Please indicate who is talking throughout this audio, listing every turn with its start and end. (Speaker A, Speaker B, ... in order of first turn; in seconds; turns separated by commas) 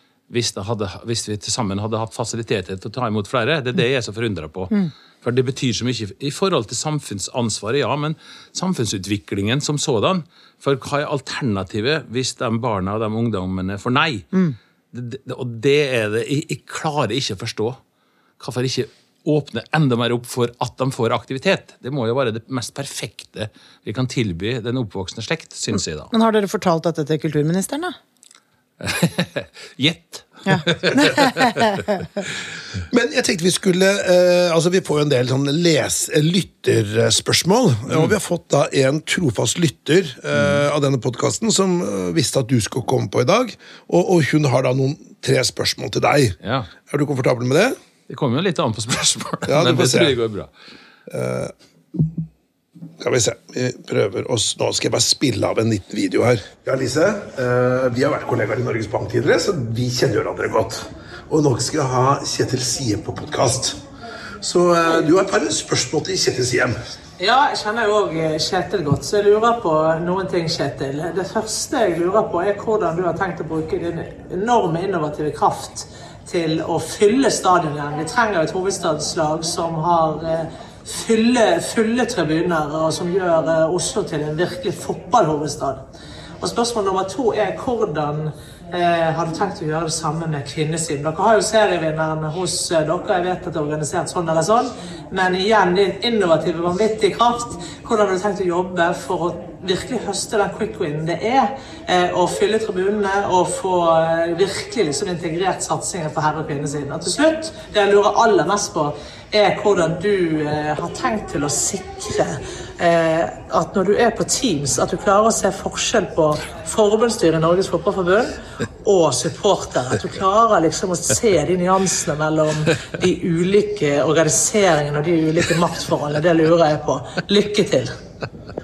Speaker A: 0.3-14.3, Speaker A: 14.9-17.8, Speaker A: 18.4-26.1, Speaker B: 26.1-27.9, Speaker A: 28.8-31.8, Speaker B: 30.5-32.0, Speaker C: 32.9-47.8, Speaker A: 46.4-46.7, Speaker A: 48.1-50.5, Speaker C: 49.5-50.1, Speaker C: 51.1-51.5, Speaker C: 53.0-63.8, Speaker C: 64.4-66.8, Speaker D: 67.2-85.8, Speaker D: 86.4-127.9